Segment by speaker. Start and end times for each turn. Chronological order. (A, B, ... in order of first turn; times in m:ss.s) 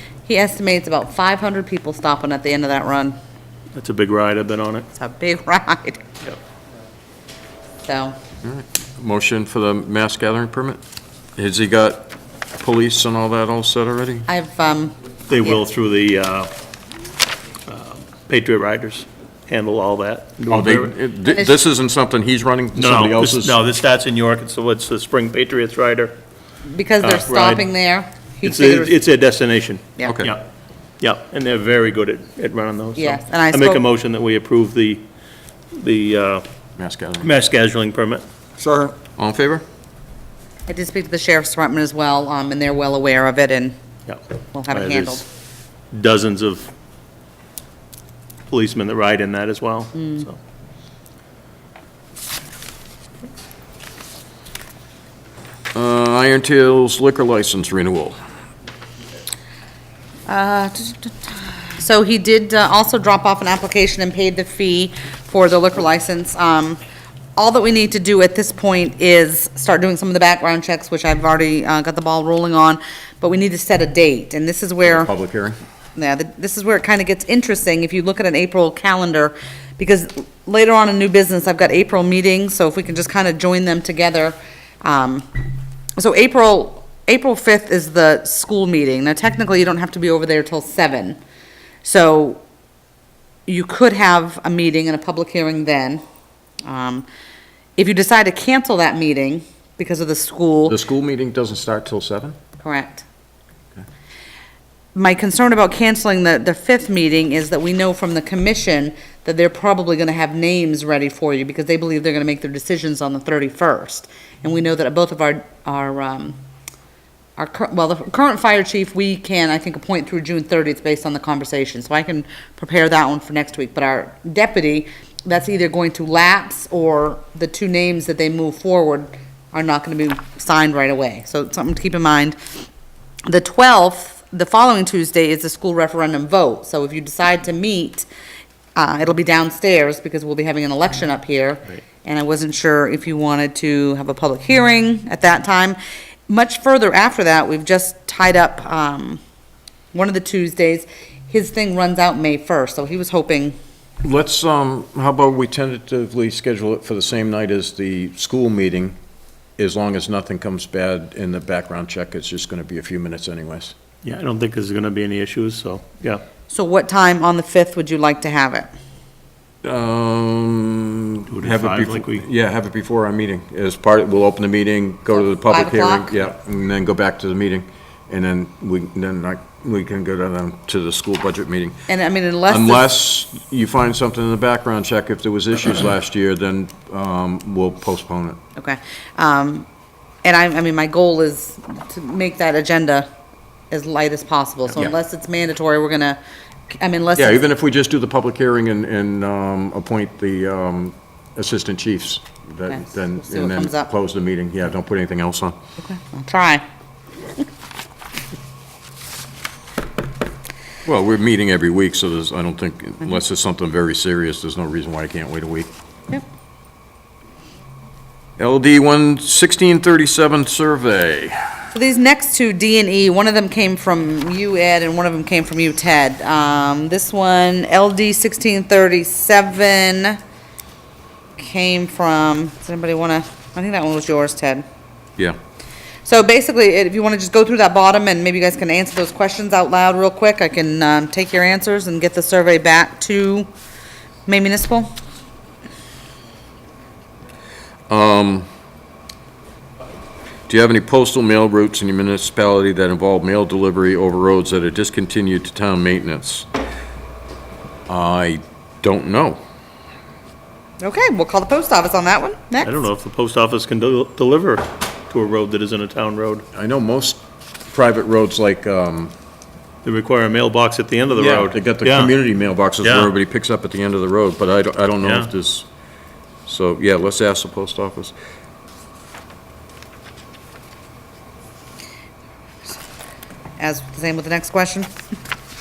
0:00.3-0:03.2 A
0:03.8-0:04.9 B
0:04.9-0:06.0 A
0:07.9-0:08.2 A
0:08.4-0:10.8 C
0:11.4-0:14.3 C
0:14.3-0:15.6 A
0:15.3-0:16.5 B
0:17.7-0:20.9 B
0:20.5-0:23.6 C
0:21.3-0:21.5 A
0:22.8-0:26.2 B
0:26.7-0:29.0 A
0:27.0-0:27.7 B
0:28.4-0:30.4 B
0:30.0-0:30.4 C
0:31.0-0:35.1 B
0:33.0-0:33.8 A
0:35.7-0:36.4 B
0:36.8-0:37.3 C
0:37.2-0:38.2 B
0:39.2-0:39.6 C
0:40.7-0:43.8 A
0:44.1-0:45.2 B
0:44.5-0:45.2 A
0:45.9-0:46.7 B
0:48.5-0:50.4 B
0:50.0-0:50.3 A
0:55.7-0:58.2 C
1:00.3-1:06.8 A
1:07.4-1:15.1 A
1:14.8-1:15.6 C
1:16.0-1:25.3 A
1:26.0-1:31.2 A
1:31.8-1:32.4 A
1:33.5-1:36.0 A
1:36.7-1:37.1 A
1:37.8-1:40.8 A
1:40.7-1:42.4 C
1:42.6-1:43.0 A
1:45.0-1:56.4 A
1:57.4-2:12.4 A
2:13.3-2:18.1 A
2:18.8-2:29.2 A
2:29.9-2:33.6 A
2:34.0-2:39.0 C
2:39.6-2:43.7 C
2:44.0-2:46.2 B
2:46.5-2:48.7 A
2:49.6-3:01.8 C
2:51.3-2:52.2 B
2:55.3-2:56.2 A
3:01.9-3:02.9 A
3:02.5-3:08.4 C
3:08.6-3:09.7 A
3:10.2-3:13.1 A
3:13.7-3:17.4 A
3:17.2-3:25.6 C
3:23.2-3:23.9 A
3:25.8-3:26.6 A
3:30.8-3:35.7 C
3:38.4-3:41.4 C
3:41.7-3:50.2 A
3:51.4-3:54.7 A
3:56.0-4:03.5 A
4:04.3-4:04.9 A
4:07.9-4:08.5 C
4:10.5-4:16.5 C
4:17.9-4:19.4 C
4:20.8-4:22.7 A
4:22.6-4:26.4 B
4:26.5-4:29.1 C
4:29.8-4:32.1 B
4:31.2-4:35.7 C
4:32.8-4:33.1 B
4:35.0-4:35.3 B
4:36.5-4:38.2 C
4:43.6-4:44.9 A